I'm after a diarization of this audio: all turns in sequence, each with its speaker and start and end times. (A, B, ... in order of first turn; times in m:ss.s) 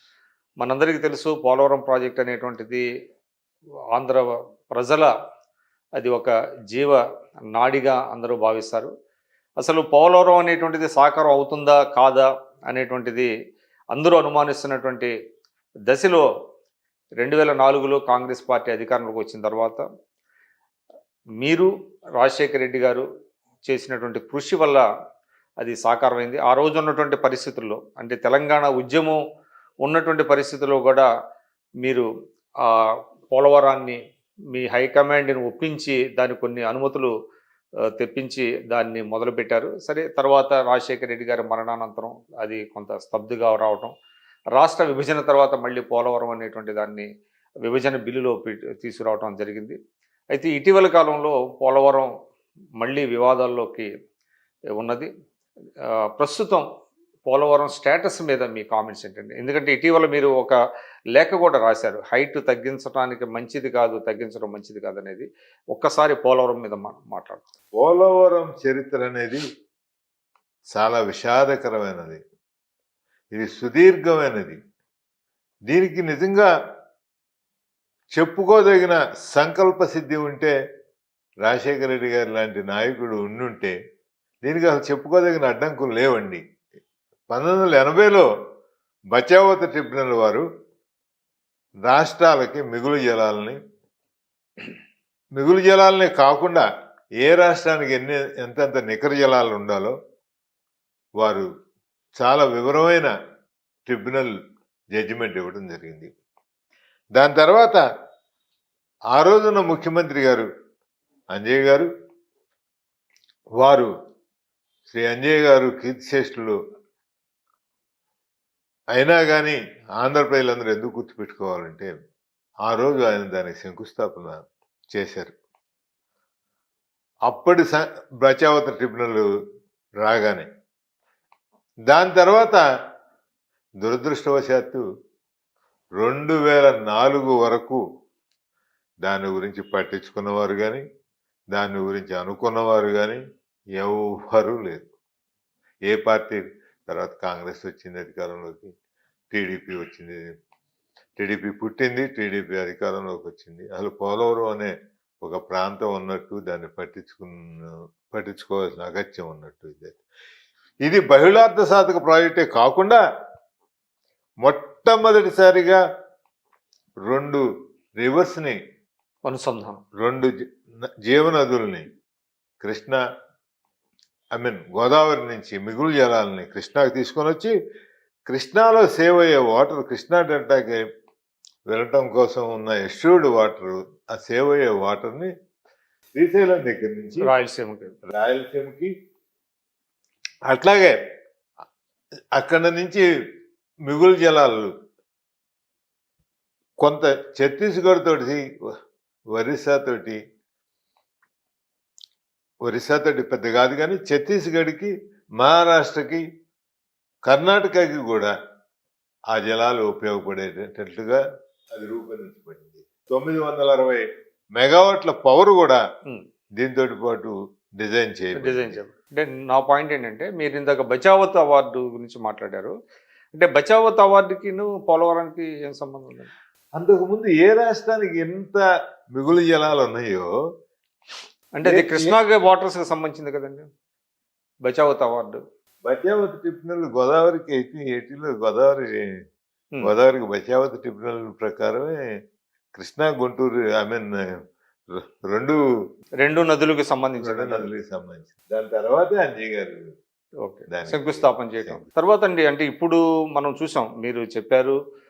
0:00.6-0:02.8 A
0:03.9-0:05.1 A
0:06.0-0:07.0 A
0:07.5-0:08.9 A
0:09.6-0:13.3 A
0:13.9-0:15.1 A
0:15.9-0:16.2 A
0:17.2-0:19.8 A
0:21.4-0:23.0 A
0:23.7-0:24.8 A
0:25.6-0:29.2 A
0:29.8-0:31.1 A
0:33.3-0:34.0 A
0:34.5-0:37.1 A
0:38.0-0:43.9 A
0:44.6-0:47.1 A
0:47.6-0:49.8 A
0:50.3-0:52.1 A
0:52.8-0:53.9 A
0:54.8-0:55.1 A
0:55.8-0:56.6 A
0:57.2-1:00.6 A
1:01.1-1:07.4 A
1:07.8-1:09.4 B
1:10.7-1:12.2 B
1:13.3-1:14.6 B
1:15.7-1:16.5 B
1:18.2-1:20.5 B
1:21.4-1:23.7 B
1:24.4-1:26.4 B
1:27.3-1:28.3 B
1:29.1-1:30.4 B
1:31.9-1:33.6 B
1:35.4-1:36.6 B
1:37.2-1:39.9 B
1:41.2-1:41.4 B
1:42.2-1:43.1 B
1:43.8-1:44.3 B
1:44.9-1:46.1 B
1:47.1-1:47.8 B
1:49.1-1:50.5 B
1:51.3-1:51.9 B
1:53.6-1:53.9 B
1:54.9-1:56.6 B
1:58.9-2:01.9 B
2:02.6-2:04.4 B
2:04.9-2:05.3 B
2:07.3-2:09.3 B
2:10.0-2:10.5 B
2:11.9-2:12.6 B
2:13.8-2:14.8 B
2:16.0-2:17.8 B
2:19.0-2:20.8 B
2:21.5-2:23.2 B
2:23.8-2:24.9 B
2:25.9-2:28.7 B
2:29.3-2:30.2 B
2:31.2-2:40.0 B
2:40.8-2:43.0 B
2:44.4-2:45.8 B
2:47.0-2:47.4 B
2:48.0-2:48.6 B
2:49.2-2:49.8 A
2:50.0-2:50.3 B
2:51.0-2:51.9 B
2:52.6-2:53.0 B
2:54.4-2:57.5 B
2:58.3-3:00.8 B
3:01.7-3:05.3 B
3:06.2-3:07.3 B
3:07.2-3:07.9 A
3:08.1-3:08.9 B
3:10.5-3:11.0 B
3:12.3-3:13.0 B
3:13.8-3:14.7 B
3:16.8-3:18.4 B
3:19.3-3:20.2 B
3:22.6-3:26.2 B
3:27.2-3:28.3 B
3:29.3-3:31.2 B
3:31.7-3:34.0 B
3:34.6-3:35.8 B
3:36.6-3:38.8 B
3:38.3-3:42.7 A
3:43.3-3:46.3 A
3:46.8-3:48.6 B
3:49.1-3:50.3 B
3:51.6-3:53.7 A
3:51.6-3:52.1 B
3:54.6-3:55.4 A
3:55.8-3:59.1 B
3:59.8-4:02.0 B
4:02.8-4:04.3 B
4:05.0-4:05.6 B
4:06.2-4:07.7 A
4:07.2-4:09.8 B
4:10.4-4:14.8 A
4:10.7-4:11.8 B